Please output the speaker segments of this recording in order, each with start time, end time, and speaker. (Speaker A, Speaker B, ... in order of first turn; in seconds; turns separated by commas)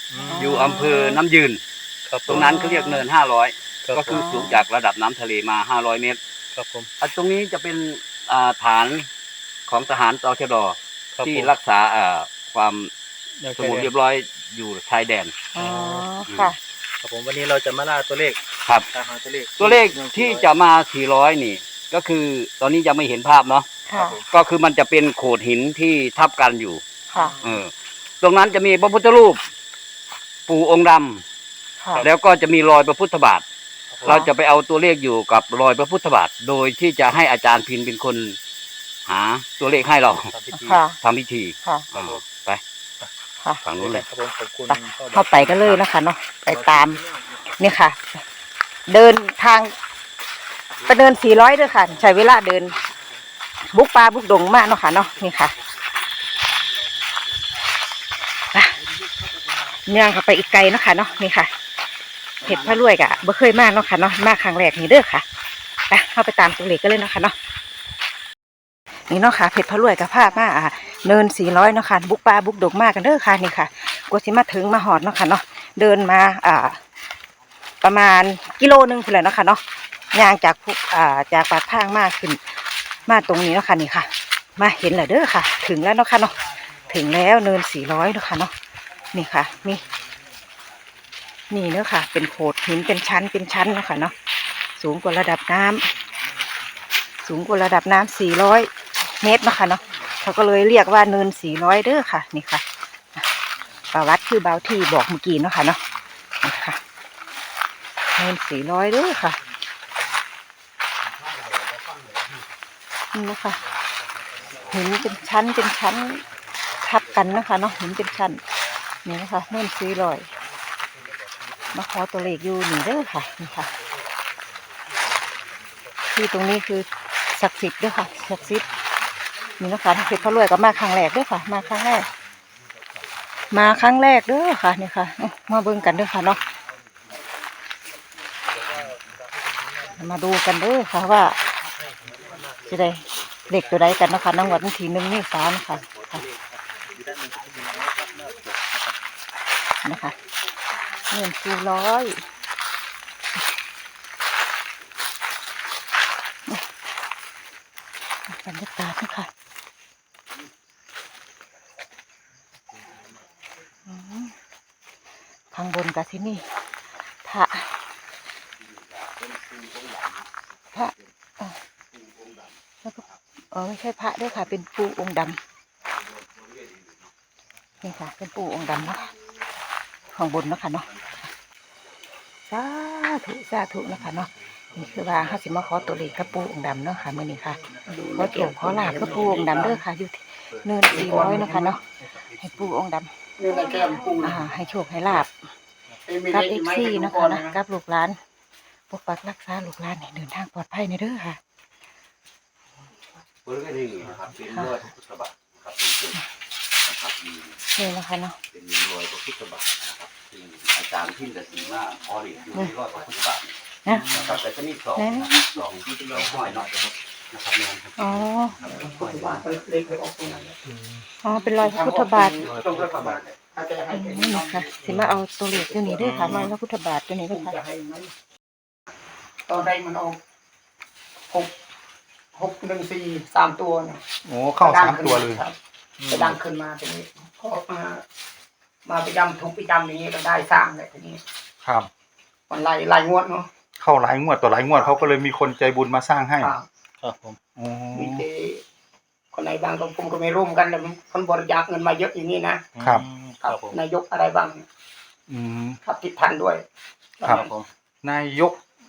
Speaker A: 0.1-0.5, Speaker B: 0.2-1.2, Speaker C: 0.3-1.6, Speaker A: 2.0-2.5, Speaker C: 2.2-6.2, Speaker B: 2.3-3.0, Speaker A: 3.8-4.3, Speaker B: 4.1-4.6, Speaker A: 6.5-6.9, Speaker C: 7.0-9.1, Speaker C: 9.7-12.9, Speaker A: 11.2-11.5, Speaker A: 13.4-13.9, Speaker C: 13.5-15.3, Speaker B: 15.5-16.6, Speaker A: 15.6-16.1, Speaker A: 17.0-18.4, Speaker A: 18.9-20.5, Speaker C: 19.6-23.6, Speaker B: 23.9-24.2, Speaker A: 24.0-24.2, Speaker C: 24.3-26.8, Speaker B: 27.1-27.4, Speaker A: 27.2-27.5, Speaker C: 27.4-27.7, Speaker C: 28.2-29.4, Speaker C: 30.5-31.2, Speaker B: 31.8-32.0, Speaker C: 31.9-33.4, Speaker A: 33.9-34.2, Speaker C: 34.0-38.4, Speaker B: 34.0-34.3, Speaker C: 39.1-40.3, Speaker A: 40.1-40.8, Speaker B: 40.6-41.0, Speaker C: 41.0-42.6, Speaker A: 41.9-42.2, Speaker C: 43.6-44.1, Speaker A: 43.8-45.8, Speaker B: 44.7-47.0, Speaker A: 46.5-47.2, Speaker B: 47.6-48.0, Speaker B: 48.9-49.7, Speaker B: 50.9-52.8, Speaker B: 53.7-55.5, Speaker B: 59.9-61.5, Speaker B: 62.4-65.2, Speaker B: 65.9-67.3, Speaker B: 69.1-76.8, Speaker B: 77.8-79.6, Speaker B: 80.1-82.4, Speaker B: 83.1-86.4, Speaker B: 86.9-88.5, Speaker B: 89.1-89.8, Speaker B: 91.5-94.1, Speaker B: 94.8-95.9, Speaker B: 97.2-102.6, Speaker B: 103.9-105.8, Speaker B: 106.4-106.8, Speaker B: 108.2-109.4, Speaker B: 113.1-113.6, Speaker B: 114.7-116.2, Speaker B: 116.8-118.4, Speaker B: 119.0-120.3, Speaker B: 121.7-123.7, Speaker B: 126.1-128.7, Speaker B: 129.6-132.1, Speaker B: 133.5-136.4, Speaker B: 139.8-141.3, Speaker A: 141.9-142.5, Speaker B: 142.7-146.2, Speaker A: 145.9-148.9, Speaker B: 149.8-150.1, Speaker B: 151.1-152.2, Speaker B: 158.3-159.3, Speaker B: 163.9-164.3, Speaker B: 165.5-166.4, Speaker B: 167.2-167.7, Speaker B: 170.7-171.6, Speaker B: 172.8-175.4, Speaker B: 177.8-179.1, Speaker B: 180.1-180.9, Speaker B: 182.5-187.6, Speaker D: 187.9-189.8, Speaker B: 188.1-191.8, Speaker D: 190.9-191.8, Speaker B: 192.3-193.1, Speaker D: 193.4-194.4, Speaker B: 194.2-195.3, Speaker D: 196.0-197.6, Speaker B: 196.3-198.2, Speaker B: 198.9-201.4, Speaker C: 203.4-206.2, Speaker C: 206.8-207.6, Speaker B: 207.8-208.4, Speaker C: 208.5-219.4, Speaker B: 215.0-215.5, Speaker B: 218.0-218.6, Speaker D: 218.8-220.6, Speaker B: 221.2-222.5, Speaker D: 221.5-225.0, Speaker B: 223.9-227.5, Speaker D: 225.6-226.5, Speaker A: 226.0-226.4, Speaker D: 227.3-228.1, Speaker D: 229.5-230.2, Speaker D: 232.3-234.0, Speaker E: 234.2-235.4, Speaker D: 234.6-235.5, Speaker A: 236.0-236.3, Speaker D: 236.1-238.0, Speaker D: 238.8-241.2, Speaker E: 241.6-241.9, Speaker D: 242.5-243.5, Speaker E: 243.8-246.5, Speaker D: 246.4-246.7, Speaker A: 247.0-247.4, Speaker E: 247.5-248.2, Speaker D: 247.9-248.6, Speaker D: 249.3-252.7, Speaker A: 252.8-253.8, Speaker D: 253.4-254.6, Speaker E: 255.3-255.8, Speaker D: 255.8-256.6, Speaker D: 257.2-257.5, Speaker A: 257.4-257.7, Speaker E: 258.0-258.6